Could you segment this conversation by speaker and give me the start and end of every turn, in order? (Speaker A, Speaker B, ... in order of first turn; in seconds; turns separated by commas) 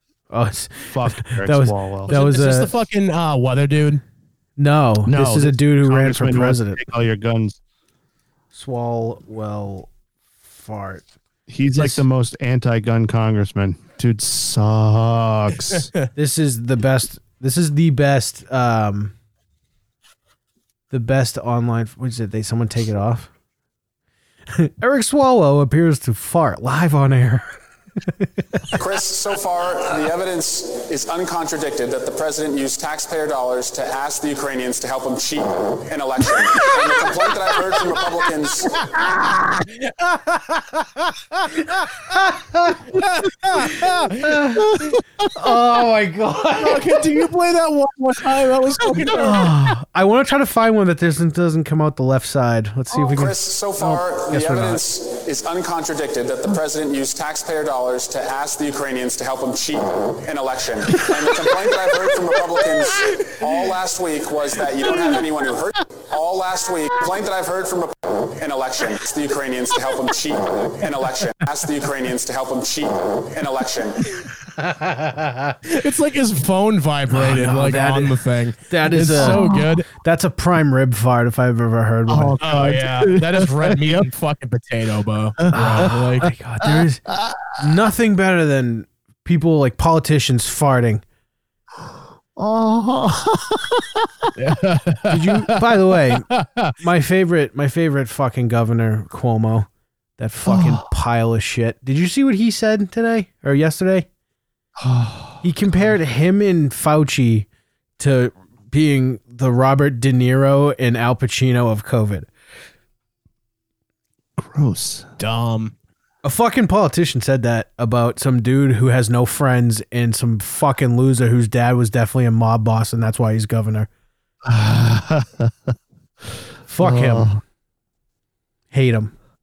Speaker A: 0.3-2.7, Speaker B: 0.9-2.1, Speaker C: 2.1-4.0, Speaker A: 4.6-6.8, Speaker B: 5.0-7.6, Speaker A: 8.5-9.9, Speaker A: 10.4-11.1, Speaker B: 11.5-15.9, Speaker A: 11.8-12.0, Speaker A: 16.1-19.1, Speaker A: 20.9-23.3, Speaker A: 24.6-27.5, Speaker A: 28.1-28.7, Speaker D: 28.8-38.8, Speaker A: 40.3-42.9, Speaker C: 42.9-44.4, Speaker A: 43.6-46.9, Speaker C: 46.6-49.5, Speaker A: 49.1-54.8, Speaker D: 53.0-74.2, Speaker A: 74.6-75.6, Speaker C: 75.7-79.9, Speaker A: 77.1-82.4, Speaker B: 79.2-79.8, Speaker B: 82.1-84.1, Speaker C: 82.4-86.3, Speaker B: 85.5-86.0, Speaker A: 85.5-87.0, Speaker B: 86.6-87.6, Speaker A: 87.6-91.0, Speaker B: 92.4-94.3, Speaker C: 94.4-96.7, Speaker A: 95.1-96.3, Speaker A: 96.8-104.1, Speaker B: 100.5-100.9, Speaker B: 104.8-105.5, Speaker A: 105.4-107.5, Speaker A: 108.0-112.3, Speaker B: 114.4-115.1, Speaker C: 115.2-115.7, Speaker A: 116.2-123.9, Speaker B: 124.5-125.7, Speaker A: 126.7-127.3, Speaker B: 126.8-127.4, Speaker A: 128.7-129.1